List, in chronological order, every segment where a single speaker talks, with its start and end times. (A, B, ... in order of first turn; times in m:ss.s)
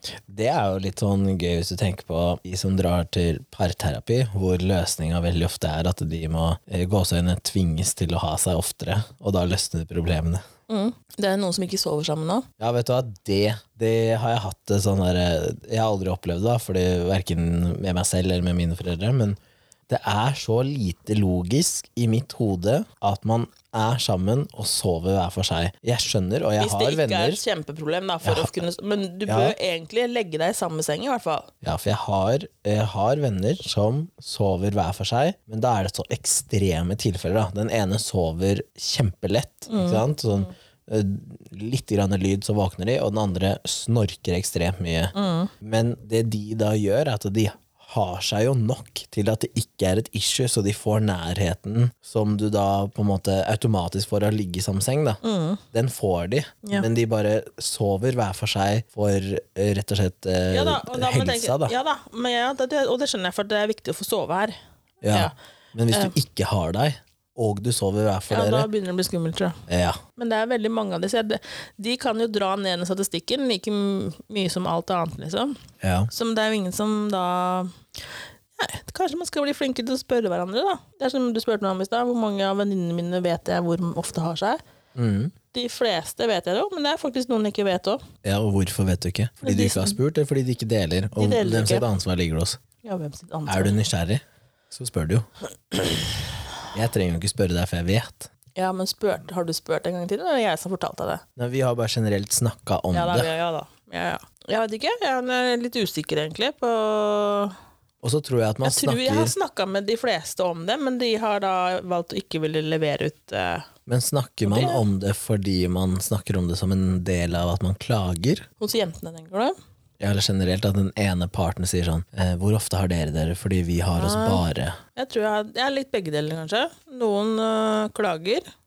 0:00.3-0:10.4 A
0:10.7-0:12.4 B
0:12.6-0:19.4 A
0:19.9-0:27.4 A
0:26.6-0:31.5 B
0:28.2-0:28.6 A
0:29.3-0:29.6 A
0:31.6-0:55.2 A
0:39.7-0:40.0 B
0:45.1-0:45.5 B
0:55.2-0:55.6 B
0:55.7-1:01.7 A
1:00.5-1:04.5 B
1:05.0-1:08.7 A
1:05.9-1:06.1 B
1:08.3-1:09.6 B
1:09.7-1:10.0 A
1:10.2-1:15.6 B
1:15.8-1:16.1 A
1:16.1-1:17.7 B
1:18.6-1:24.6 B
1:24.9-1:25.3 A
1:25.5-1:28.0 B
1:28.2-1:32.6 A
1:29.4-1:30.0 B
1:31.2-1:31.9 B
1:32.8-1:33.7 B
1:33.5-1:35.8 A
1:36.7-1:38.3 A
1:38.6-1:41.2 B
1:41.4-1:43.3 A
1:42.9-1:47.5 B
1:48.0-1:49.3 A
1:48.6-1:53.7 B
1:53.8-1:58.4 A
1:54.4-1:54.8 B
1:58.6-1:59.6 B
2:00.0-2:04.8 A
2:04.0-2:04.4 B
2:05.0-2:08.4 B